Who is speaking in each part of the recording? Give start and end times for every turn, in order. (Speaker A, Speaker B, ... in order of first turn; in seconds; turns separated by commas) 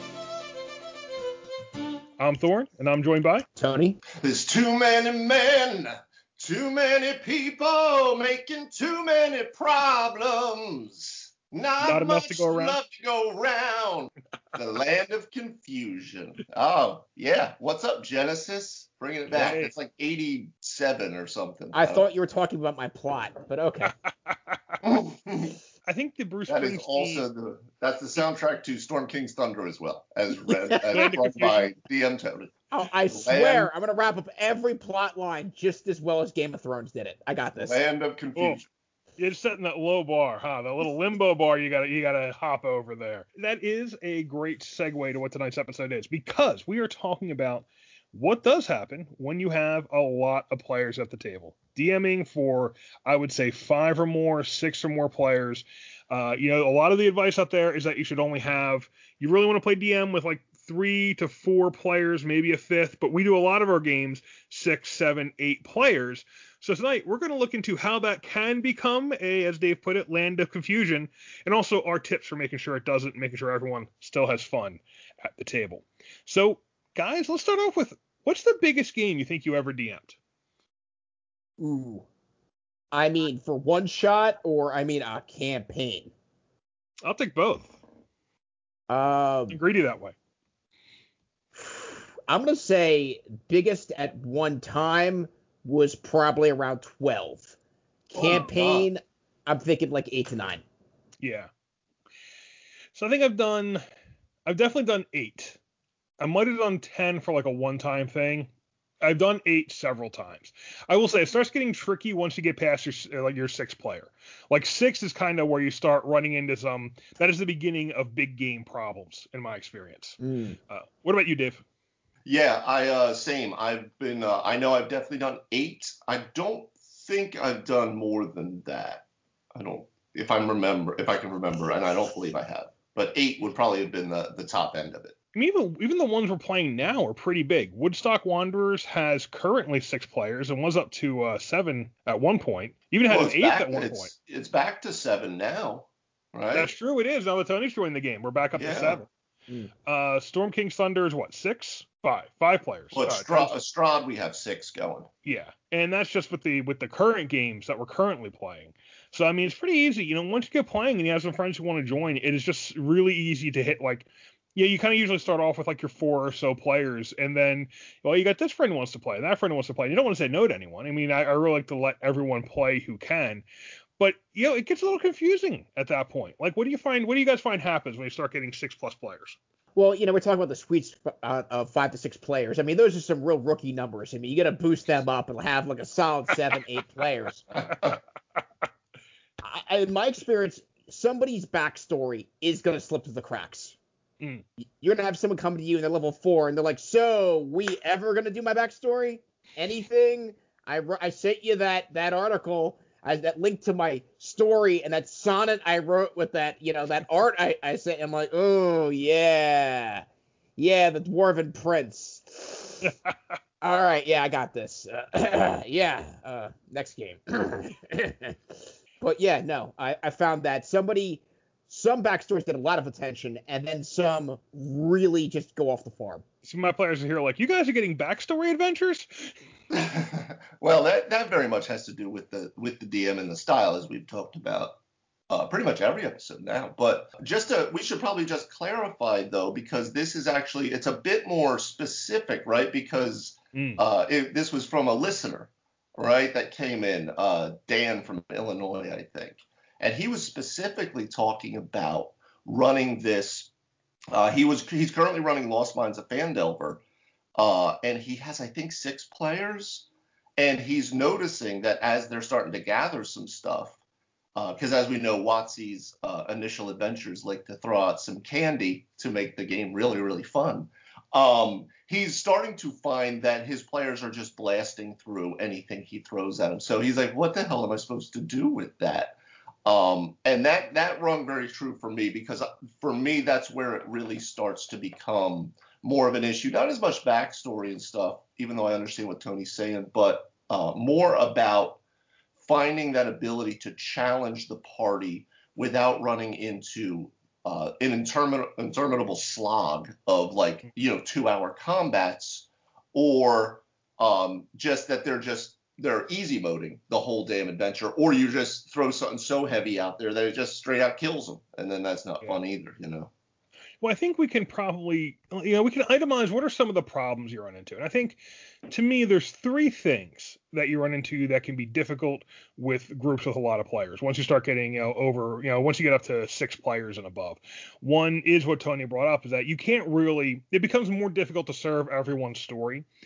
Speaker A: 2.2-3.5, Speaker B: 3.6-4.0, Speaker C: 4.2-22.1, Speaker A: 11.8-12.8, Speaker A: 19.3-19.7, Speaker B: 21.7-23.9, Speaker A: 24.3-24.5, Speaker C: 24.8-25.6, Speaker A: 25.9-27.3, Speaker C: 26.5-32.5, Speaker B: 30.7-31.1, Speaker A: 30.8-31.7, Speaker B: 32.7-37.8, Speaker C: 33.1-33.7, Speaker C: 37.6-38.7, Speaker A: 39.2-80.2, Speaker B: 81.6-82.1, Speaker B: 82.9-86.1, Speaker A: 87.0-87.7, Speaker B: 88.9-89.6, Speaker A: 89.5-90.1, Speaker B: 91.6-97.6, Speaker B: 98.1-100.6, Speaker C: 98.2-98.9, Speaker A: 101.2-101.5, Speaker A: 102.9-103.8, Speaker A: 104.5-105.6, Speaker A: 106.2-108.5, Speaker A: 109.0-121.6, Speaker B: 120.2-120.6, Speaker C: 122.3-135.2, Speaker A: 135.3-144.1, Speaker C: 143.1-146.7, Speaker A: 146.5-149.1, Speaker C: 148.6-149.0, Speaker A: 149.9-153.6, Speaker C: 152.9-155.1, Speaker A: 155.2-173.4, Speaker A: 174.0-179.4, Speaker B: 179.8-187.5, Speaker B: 189.4-193.8, Speaker B: 194.8-210.1, Speaker B: 210.6-212.9, Speaker B: 213.6-226.2, Speaker A: 226.4-229.3, Speaker C: 229.7-234.8, Speaker C: 235.3-253.5, Speaker A: 243.5-243.8, Speaker C: 254.1-256.8, Speaker C: 257.4-263.8, Speaker C: 264.4-291.8, Speaker C: 292.4-313.1, Speaker A: 313.8-332.9